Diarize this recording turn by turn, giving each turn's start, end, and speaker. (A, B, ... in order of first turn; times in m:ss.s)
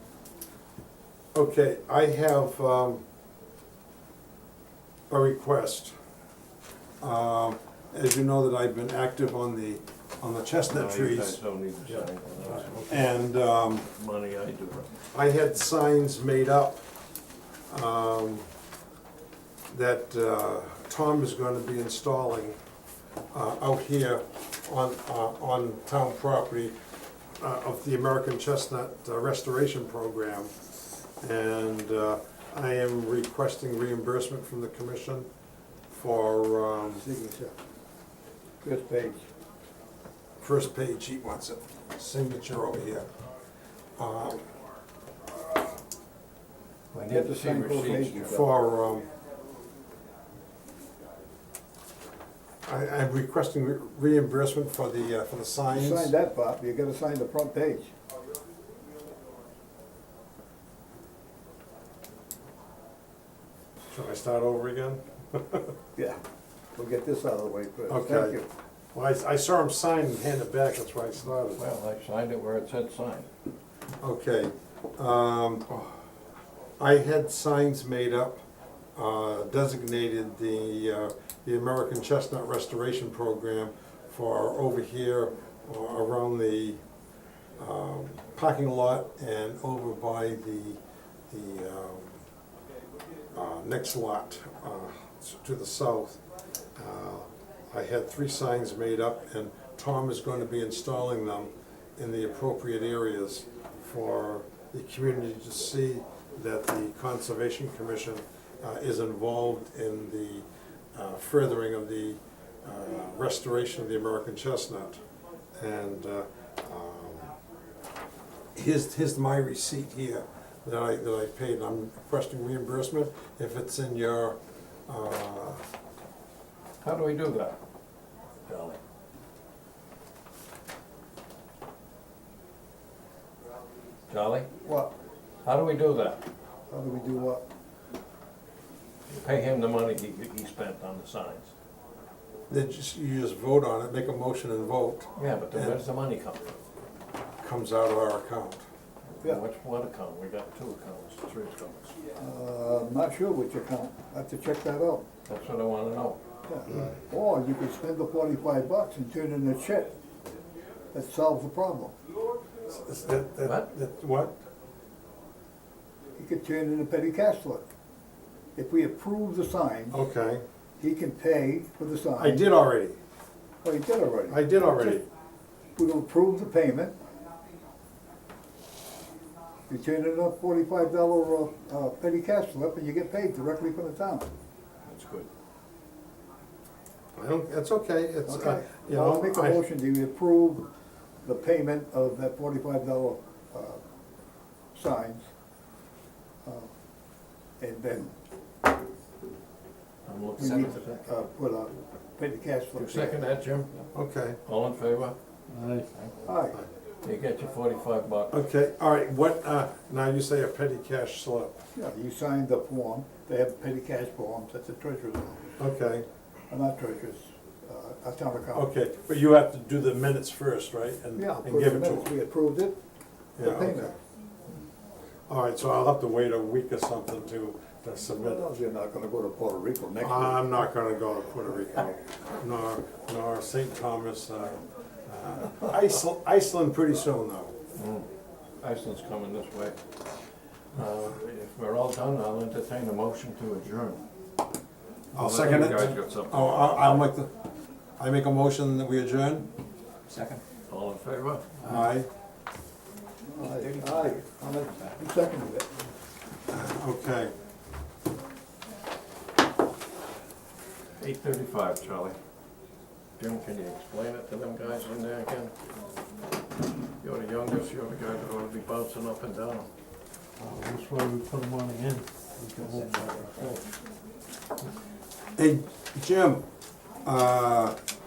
0:01.3-0:03.0 A
0:05.1-0:06.0 A
0:07.0-0:13.9 A
0:10.7-0:13.1 B
0:13.9-0:14.9 B
0:15.1-0:16.8 A
0:17.7-0:18.5 A
0:19.7-0:22.6 A
0:23.3-0:26.8 A
0:27.4-0:30.5 A
0:31.2-0:35.3 A
0:35.9-0:37.1 A
0:37.0-0:37.5 C
0:38.6-0:39.2 C
0:40.4-0:43.1 A
0:44.0-0:44.4 A
0:46.9-0:48.3 B
0:47.1-0:48.5 C
0:48.2-0:49.1 A
0:52.6-0:56.1 A
0:55.7-0:57.9 C
1:03.9-1:05.7 A
1:06.8-1:08.5 C
1:07.9-1:08.4 A
1:08.9-1:11.7 A
1:11.6-1:13.3 B
1:14.0-1:15.7 A
1:16.8-1:18.4 A
1:19.0-1:26.8 A
1:27.6-1:30.8 A
1:31.3-1:32.2 A
1:33.3-1:36.2 A
1:36.8-1:55.0 A
1:55.6-1:57.4 A
1:58.6-2:05.6 A
2:06.8-2:07.6 B
2:08.5-2:08.8 B
2:14.1-2:14.5 B
2:14.6-2:14.9 C
2:15.4-2:16.2 B
2:16.7-2:17.4 C
2:19.1-2:21.5 B
2:22.5-2:25.8 A
2:25.2-2:26.6 B
2:27.4-2:28.6 A
2:29.2-2:32.0 B
2:32.2-2:35.0 C
2:35.3-2:36.2 B
2:36.5-2:39.9 C
2:40.9-2:42.0 C
2:42.7-2:44.3 A
2:46.2-2:47.6 C
2:48.6-2:50.0 C
2:49.9-2:50.4 A
2:50.8-2:52.5 C
2:52.2-2:53.0 A
2:53.6-2:55.0 C
2:54.3-2:55.1 A
2:55.8-2:57.0 C
2:59.7-3:04.3 C
3:04.8-3:05.3 B
3:07.2-3:09.6 A
3:08.3-3:10.7 C
3:11.2-3:13.8 C
3:14.8-3:15.2 C
3:16.4-3:16.7 C
3:17.6-3:18.1 C
3:20.1-3:21.0 B
3:20.4-3:23.2 C
3:22.8-3:23.8 B
3:23.9-3:24.4 A
3:24.4-3:25.2 B
3:25.5-3:25.9 D
3:26.2-3:26.6 C
3:27.0-3:28.3 B
3:28.3-3:31.6 A
3:31.8-3:35.5 C
3:35.6-3:36.1 A
3:36.5-3:38.7 C
3:38.5-3:42.1 A
3:41.2-3:42.8 C
3:43.4-3:44.0 A
3:43.4-3:43.9 C
3:45.3-3:48.5 A
3:48.2-3:50.6 C
3:50.0-3:57.6 A
3:57.8-3:58.1 B
3:58.6-3:59.8 B
4:00.8-4:04.0 B
4:05.1-4:07.1 B
4:05.1-4:07.3 A
4:08.0-4:09.5 A
4:10.1-4:10.4 D
4:10.7-4:11.6 B
4:11.6-4:11.9 D
4:11.6-4:12.1 A
4:13.3-4:15.7 C
4:13.5-4:15.0 D
4:16.5-4:17.3 A
4:21.0-4:22.2 B
4:23.2-4:25.5 B
4:27.0-4:29.7 B
4:30.4-4:33.6 D
4:32.6-4:33.6 B
4:35.4-4:36.4 A
4:37.0-4:37.8 A